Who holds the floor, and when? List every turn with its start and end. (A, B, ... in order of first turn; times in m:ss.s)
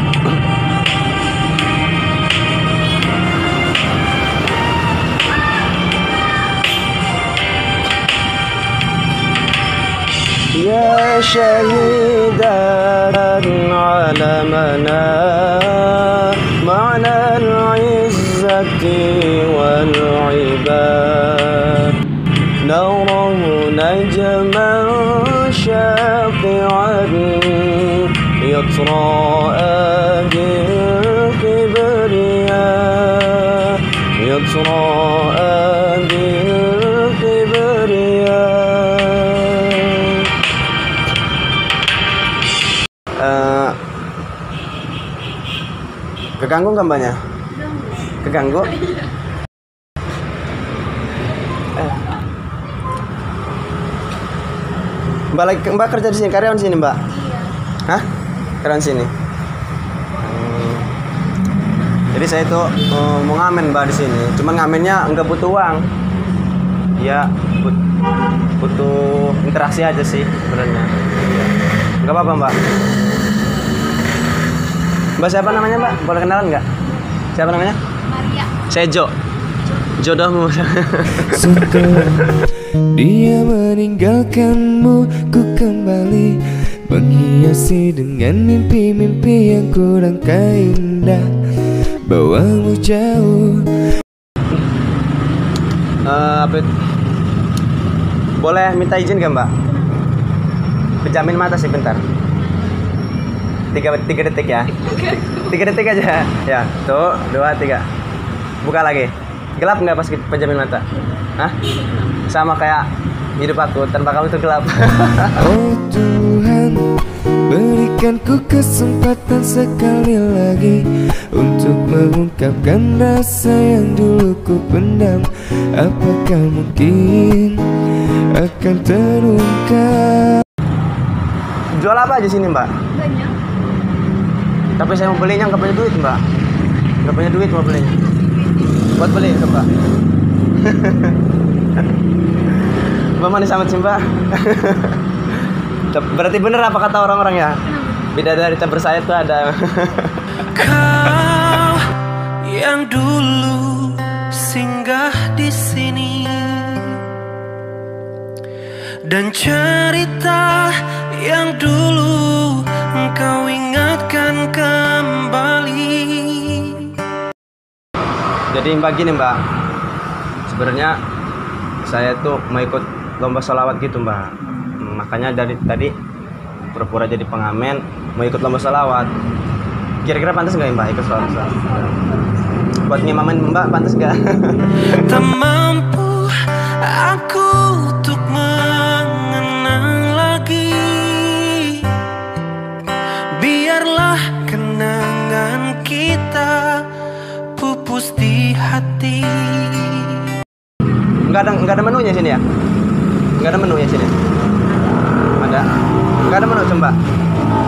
0:10.5-0:21.9 A
0:22.6-0:40.3 A
0:43.2-0:43.8 A
0:46.4-0:47.2 A
0:48.1-0:48.8 A
0:51.8-0:52.1 A
0:55.3-0:57.0 A
0:58.6-0:59.1 A
1:00.2-1:00.9 A
1:02.1-1:05.8 A
1:07.0-1:07.8 A
1:08.6-1:11.5 A
1:12.0-1:12.6 A
1:15.2-1:16.6 A
1:17.3-1:17.8 A
1:18.5-1:19.1 A
1:20.0-1:21.8 A
1:21.2-1:31.3 B
1:32.0-1:33.7 B
1:36.0-1:36.7 A
1:38.4-1:39.5 A
1:41.0-1:42.0 A
1:43.7-1:47.8 A
1:48.6-1:50.8 A
1:52.3-1:52.9 A
1:53.4-1:55.5 A
1:55.4-1:57.0 B
1:57.5-2:07.8 B
2:08.3-2:10.4 B
2:11.8-2:12.7 A
2:14.8-2:16.2 A
2:17.0-2:18.0 A
2:18.9-2:19.7 A
2:20.6-2:21.2 A
2:23.2-2:25.0 A
2:25.9-2:27.6 A
2:28.1-2:30.2 A
2:30.4-2:31.8 C
2:32.5-2:37.0 C
2:39.1-2:47.0 C
2:48.5-2:49.4 A
2:50.4-2:51.0 A
2:51.8-2:55.9 A
2:56.7-2:59.1 A
3:00.0-3:02.0 A
3:02.8-3:05.0 A
3:04.9-3:11.9 C
3:13.4-3:16.8 C
3:17.6-3:20.3 C
3:21.3-3:22.4 A
3:23.4-3:24.1 A
3:25.4-3:25.6 A
3:26.2-3:27.0 A